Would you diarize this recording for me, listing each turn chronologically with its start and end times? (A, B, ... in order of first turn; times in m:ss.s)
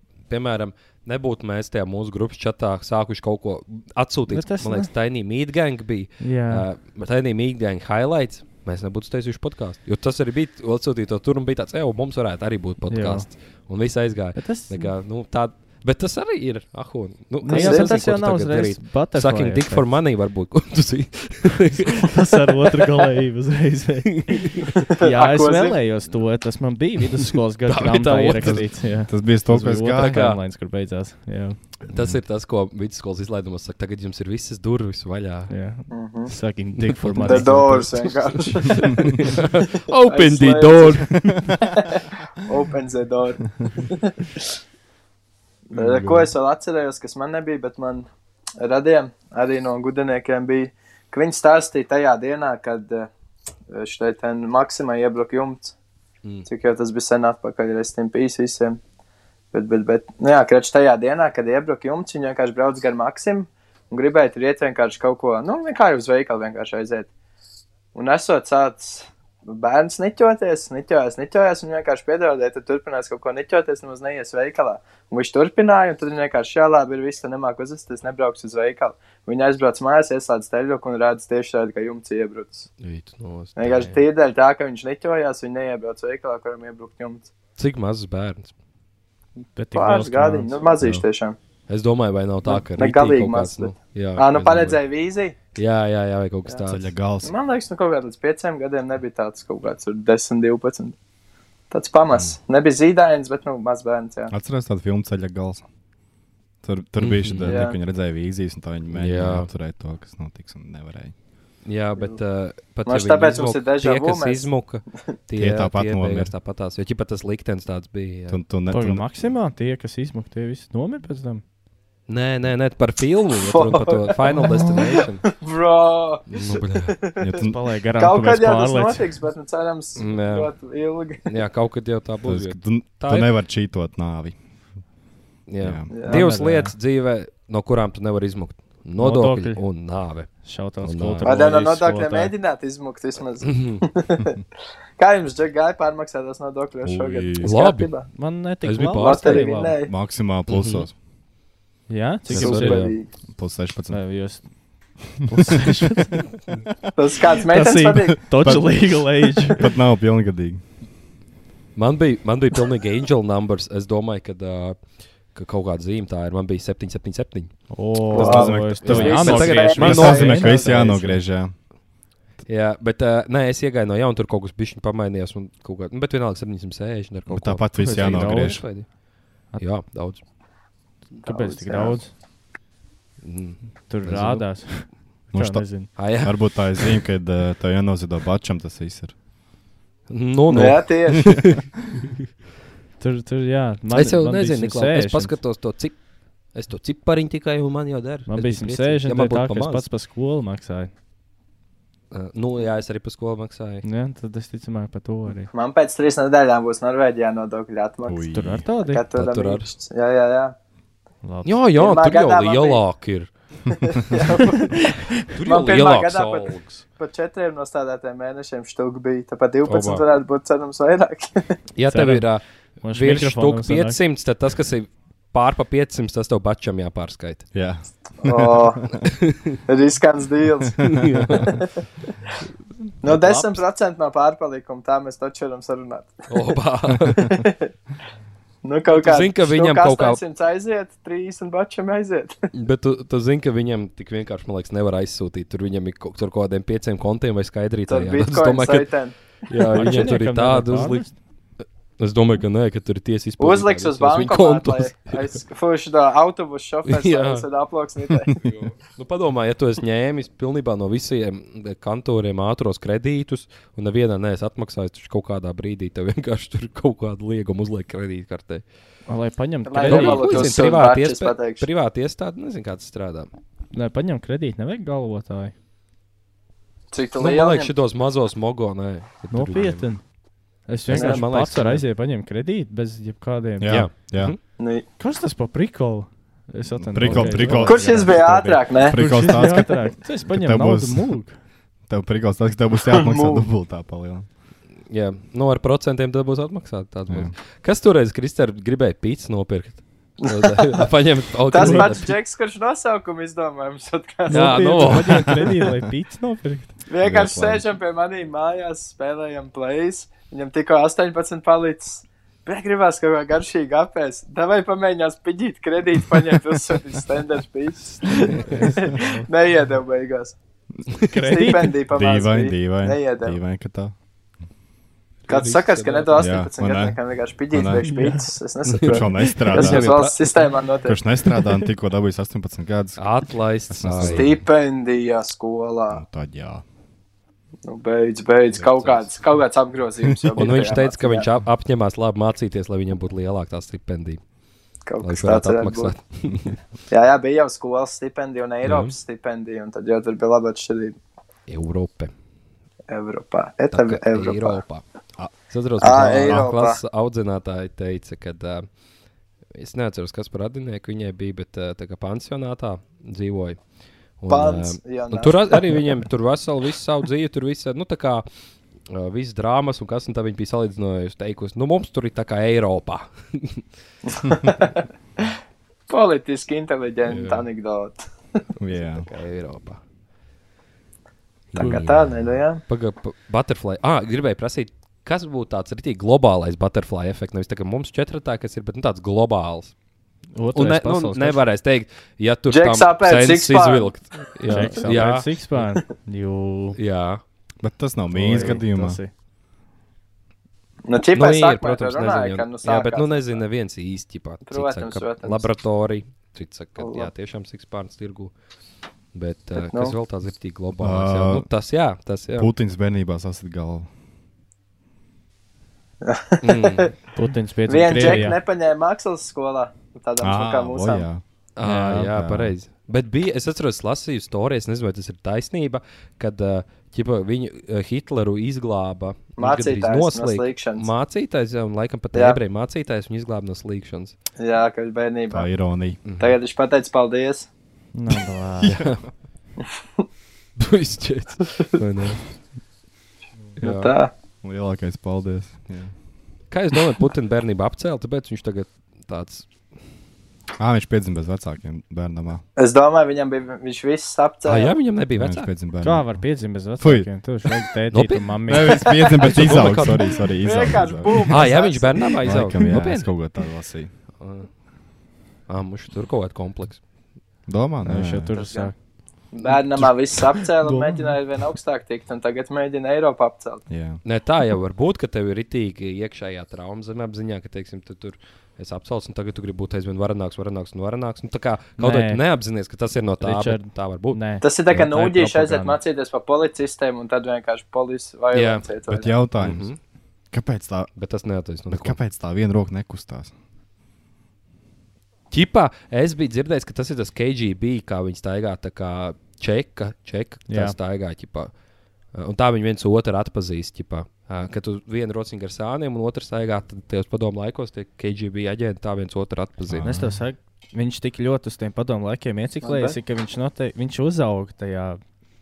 0:00.3-0:22.1 A
0:04.3-0:04.9 B
0:06.2-0:06.7 B
0:12.9-0:13.3 B
0:14.4-0:14.9 B
0:17.4-0:19.9 B
0:17.5-0:18.0 C
0:22.0-0:31.6 B
0:24.2-0:24.8 A
0:24.8-0:25.8 C
0:27.7-0:28.6 A
0:28.4-0:30.2 D
0:29.9-0:30.4 A
0:31.9-0:35.5 A
0:31.9-0:32.2 D
0:35.5-0:38.1 B
0:35.9-0:36.3 C
0:36.8-0:41.6 A
0:37.2-0:39.3 C
0:40.1-0:44.4 C
0:45.7-0:48.1 C
0:45.8-0:46.3 D
0:48.6-0:53.1 C
0:53.7-0:55.7 C
0:56.5-0:58.8 C
0:59.5-1:07.1 C
1:07.9-1:22.7 C
1:22.8-1:24.0 A
1:23.6-1:27.3 C
1:27.6-1:28.5 A
1:29.6-1:30.6 B
1:29.7-1:31.4 C
1:31.7-1:34.8 A
1:32.5-1:35.4 C
1:35.6-1:37.0 A
1:36.7-1:37.3 D
1:37.2-1:41.0 C
1:41.7-1:44.3 C
1:44.3-1:45.6 D
1:46.6-1:51.1 D
1:47.0-1:47.6 A
1:47.4-1:47.8 C
1:48.9-1:49.5 A
1:51.6-1:58.4 A
1:52.9-1:54.5 C
1:55.4-1:56.3 D
1:58.3-1:59.1 D
1:58.7-2:01.4 B
2:02.1-2:05.2 A
2:03.4-2:07.4 C
2:06.3-2:07.0 A
2:07.2-2:07.6 D
2:07.4-2:09.1 B
2:08.0-2:11.2 C
2:10.0-2:10.5 A
2:11.2-2:13.3 A
2:12.2-2:14.4 D
2:15.5-2:21.4 A
2:15.6-2:15.9 D
2:15.9-2:16.2 C
2:16.1-2:16.7 B
2:19.0-2:19.6 B
2:20.4-2:22.3 B
2:21.2-2:24.4 C
2:23.4-2:23.8 A
2:25.0-2:28.1 C
2:26.8-2:27.5 D
2:27.4-2:27.9 A
2:28.2-2:29.8 B
2:28.6-2:29.5 A
2:29.0-2:29.9 C
2:29.8-2:30.9 D
2:30.5-2:30.9 A
2:31.9-2:32.9 B
2:32.3-2:33.0 A
2:32.4-2:33.1 C
2:33.3-2:34.0 D
2:33.9-2:34.4 B
2:35.2-2:36.3 B
2:37.0-2:38.2 C
2:37.5-2:39.7 B
2:38.3-2:40.6 D
2:41.8-2:44.8 A
2:45.3-2:47.6 A
2:47.7-2:51.2 B
2:48.1-2:51.0 C
2:48.1-2:51.6 D
2:48.2-2:50.5 A
2:52.5-2:58.9 A
2:57.3-2:58.6 D
2:57.8-2:58.8 B
2:59.6-3:00.2 A
3:01.2-3:02.0 C
3:01.2-3:02.1 B
3:03.2-3:04.6 A
3:03.9-3:05.9 B
3:05.3-3:09.2 D
3:06.0-3:07.0 A
3:10.1-3:11.4 A
3:10.5-3:11.5 C
3:10.6-3:11.4 D
3:13.0-3:15.4 B
3:13.9-3:16.0 A
3:16.5-3:19.9 A
3:18.3-3:20.9 B
3:22.1-3:23.8 A
3:23.8-3:25.5 B
3:25.5-3:28.3 C
3:28.1-3:28.7 D
3:28.3-3:29.1 B
3:28.8-3:30.6 C
3:29.1-3:29.7 A
3:31.2-3:31.6 B
3:31.4-3:33.3 A
3:31.8-3:32.8 C
3:33.8-3:41.6 C
3:35.3-3:36.8 A
3:39.6-3:40.0 A
3:41.8-3:47.5 A
3:41.9-3:44.0 B
3:47.5-3:49.0 D
3:48.2-3:48.8 C
3:49.0-3:49.6 A
3:49.7-3:51.6 C
3:50.8-3:51.6 A
3:53.0-3:56.2 C
3:53.1-3:53.6 A
3:56.3-3:57.3 A
3:57.2-3:57.7 C
3:58.6-4:02.4 C
3:58.9-4:00.2 A
4:02.5-4:08.9 A
4:07.9-4:10.0 C
4:09.5-4:11.1 A
4:09.8-4:11.1 B
4:12.0-4:15.2 A
4:13.4-4:18.4 C
4:16.9-4:17.5 A
4:18.3-4:28.6 A
4:29.1-4:30.5 B
4:29.7-4:31.7 C
4:29.8-4:33.3 A
4:33.7-4:35.5 B
4:36.9-4:37.7 C
4:37.2-4:39.9 A
4:39.3-4:40.0 B
4:40.7-4:43.9 B
4:40.9-4:41.9 A
4:40.9-4:41.2 C
4:43.6-4:44.4 D
4:43.7-4:44.4 A
4:44.6-4:44.8 C
4:45.0-4:51.4 B
4:46.8-4:51.1 D
4:47.0-4:47.6 A
4:47.6-4:49.4 C
4:51.9-4:54.3 D
4:52.9-4:53.5 C
4:54.9-5:02.1 A
4:57.1-4:57.3 D
5:00.3-5:00.8 C
5:01.5-5:05.0 C
5:01.6-5:01.9 B
5:04.3-5:06.8 B
5:04.3-5:05.4 A
5:06.9-5:20.4 C
5:07.0-5:07.7 D
5:18.3-5:18.7 A
5:18.5-5:19.2 B
5:21.1-5:21.8 B
5:21.2-5:23.4 C
5:21.9-5:24.0 D
5:25.3-5:26.4 A
5:25.3-5:31.0 C
5:26.2-5:27.0 D
5:27.5-5:27.9 D
5:27.8-5:28.2 B
5:28.7-5:30.6 A
5:28.8-5:30.0 D
5:30.8-5:33.1 D
5:33.0-5:34.4 A
5:33.7-5:34.4 D
5:34.0-5:36.0 C
5:35.9-5:36.6 D
5:37.6-5:41.3 C
5:38.6-5:39.1 A
5:40.0-5:40.5 D
5:40.4-5:44.2 A
5:44.9-5:45.9 C
5:45.0-5:46.6 A
5:46.9-5:51.0 C
5:48.6-5:49.0 A
5:51.5-5:52.1 A
5:52.9-5:54.6 C
5:53.7-5:54.8 A
5:55.5-5:58.7 A
5:55.8-5:56.8 C
5:59.6-6:03.6 A
6:04.2-6:08.2 A
6:04.3-6:05.9 C
6:08.9-6:13.6 A
6:14.1-6:14.8 C
6:15.9-6:18.4 C
6:17.1-6:17.5 A
6:18.6-6:19.1 D
6:18.7-6:19.8 A
6:21.5-6:29.7 A
6:21.6-6:22.6 C
6:30.4-6:31.4 B
6:30.5-6:35.6 A
6:32.5-6:34.0 C
6:34.5-6:36.8 B
6:36.8-6:37.2 A
6:37.6-6:39.0 D
6:38.1-6:39.1 B
6:40.8-6:43.4 C
6:41.1-6:48.3 A
6:44.5-6:45.5 C
6:46.8-6:47.1 C
6:49.1-6:52.5 A
6:49.6-6:50.0 C
6:50.8-6:51.5 D
6:52.4-6:53.9 D
6:56.0-6:57.0 C
6:56.4-6:56.9 A
6:57.2-6:58.4 B
6:57.7-7:01.1 C
7:00.2-7:01.2 D
7:01.6-7:14.2 A
7:01.6-7:02.1 B
7:02.0-7:02.6 D
7:09.4-7:10.9 C
7:12.1-7:12.4 C
7:14.4-7:15.5 C
7:15.3-7:16.0 D
7:16.0-7:16.4 A
7:16.2-7:17.5 C
7:17.9-7:18.8 B
7:18.6-7:19.0 A
7:20.6-7:22.2 A
7:23.6-7:23.9 A
7:23.6-7:24.1 C
7:24.4-7:25.9 D
7:26.5-7:29.5 A
7:30.6-7:32.4 D
7:32.6-7:34.8 C
7:34.4-7:35.5 A
7:35.2-7:36.2 D
7:35.8-7:39.2 B
7:36.8-7:37.1 D
7:37.9-7:40.2 A
7:38.5-7:41.4 D
7:39.7-7:42.5 C
7:41.3-7:43.1 A
7:42.2-7:43.9 D
7:44.2-7:44.5 A
7:45.5-7:46.8 A
7:47.5-7:48.4 D
7:47.8-7:48.8 B
7:48.4-7:48.7 C
7:49.3-7:53.6 C
7:50.6-7:51.2 B
7:53.7-7:54.0 D
7:54.0-8:04.2 A
8:01.8-8:02.2 B
8:03.2-8:05.8 B
8:04.4-8:09.1 C
8:08.3-8:08.7 A
8:08.9-8:09.7 D
8:09.4-8:09.8 A
8:10.3-8:10.9 D
8:11.0-8:12.0 A
8:11.7-8:13.3 D
8:15.3-8:21.5 A
8:20.5-8:20.8 B
8:22.1-8:30.0 A
8:29.7-8:30.2 D
8:29.8-8:35.0 B
8:32.6-8:33.0 C